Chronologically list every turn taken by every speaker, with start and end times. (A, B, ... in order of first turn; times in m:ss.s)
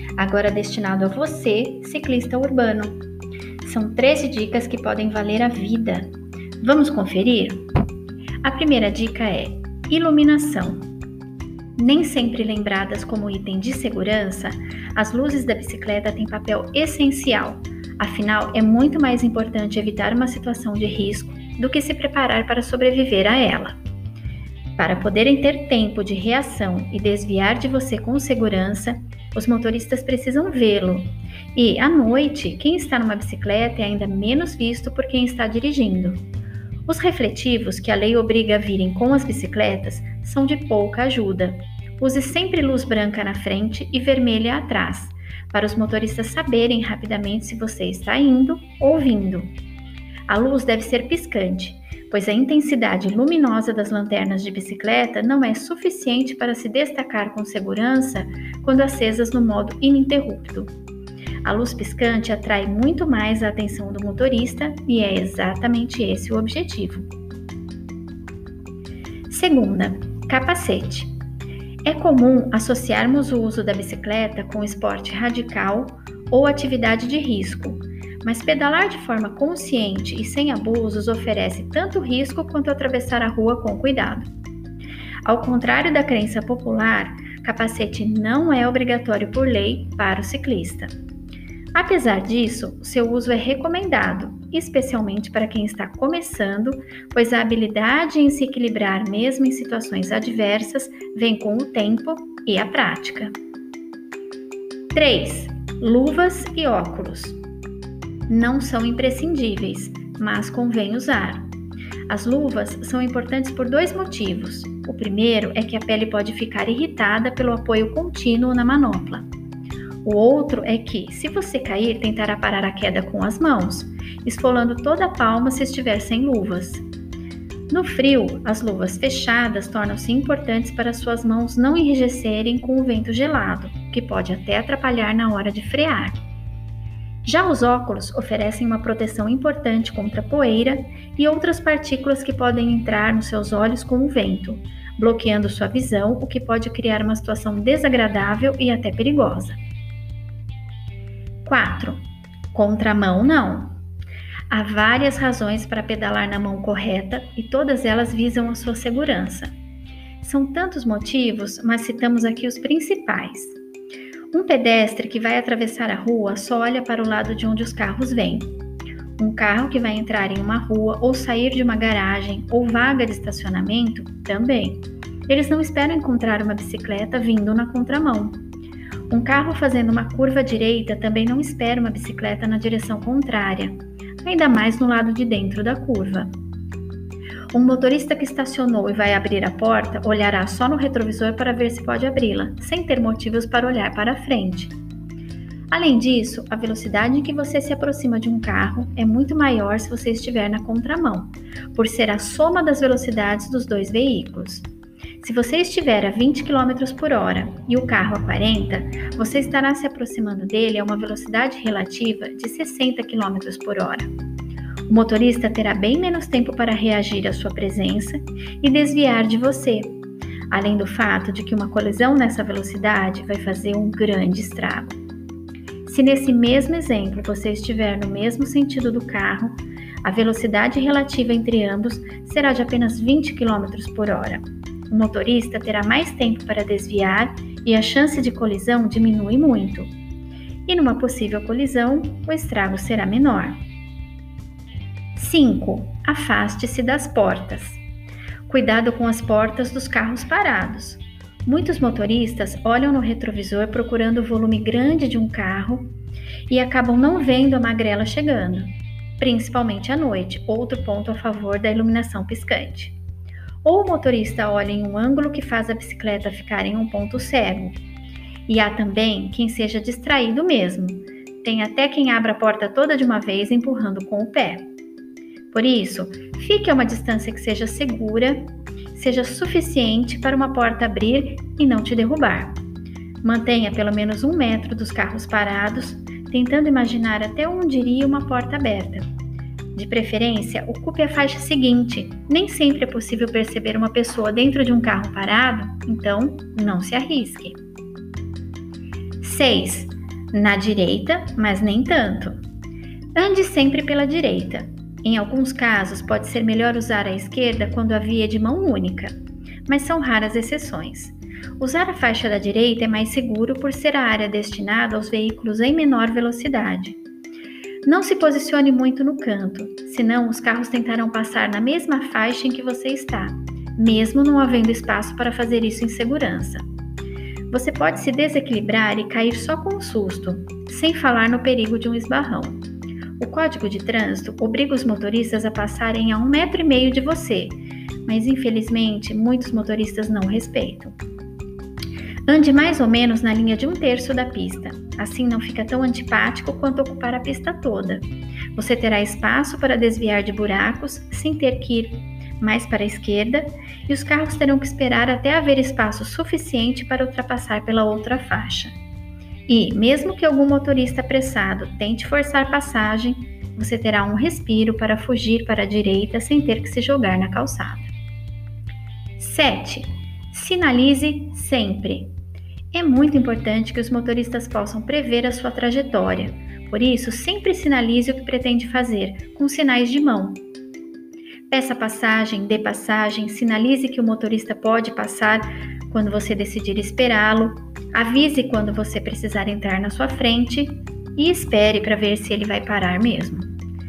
0:00.2-0:03.0 A
0:03.6-0:07.7 A
0:08.4-0:10.9 A
0:11.8-0:23.8 A
0:24.8-0:36.2 A
0:36.9-0:49.5 A
0:50.3-1:00.7 A
1:01.4-1:07.1 A
1:09.3-1:11.1 A
1:11.8-1:24.3 A
1:25.2-1:30.9 A
1:31.7-1:43.3 A
1:44.9-1:47.4 A
1:48.3-1:51.5 A
1:52.1-1:59.2 A
2:00.0-2:06.8 A
2:07.7-2:16.2 A
2:17.2-2:29.6 A
2:31.4-2:32.0 A
2:32.5-2:33.8 A
2:34.5-2:39.5 A
2:40.2-2:43.6 A
2:44.3-2:48.5 A
2:49.2-2:58.4 A
2:59.1-3:06.3 A
3:07.5-3:14.7 A
3:15.7-3:24.7 A
3:25.2-3:34.1 A
3:34.9-3:40.0 A
3:40.5-3:45.0 A
3:45.9-3:59.9 A
4:00.7-4:03.6 A
4:05.2-4:07.8 A
4:08.5-4:15.9 A
4:16.5-4:23.0 A
4:23.6-4:27.8 A
4:28.5-4:34.7 A
4:35.5-4:42.6 A
4:43.2-4:49.1 A
4:49.7-4:57.6 A
4:59.2-5:02.4 A
5:03.1-5:09.1 A
5:09.6-5:17.0 A
5:17.8-5:26.6 A
5:27.5-5:32.6 A
5:33.2-5:40.9 A
5:42.2-5:48.0 A
5:48.5-5:58.7 A
5:59.5-6:07.9 A
6:09.2-6:12.1 A
6:12.7-6:20.4 A
6:21.5-6:33.5 A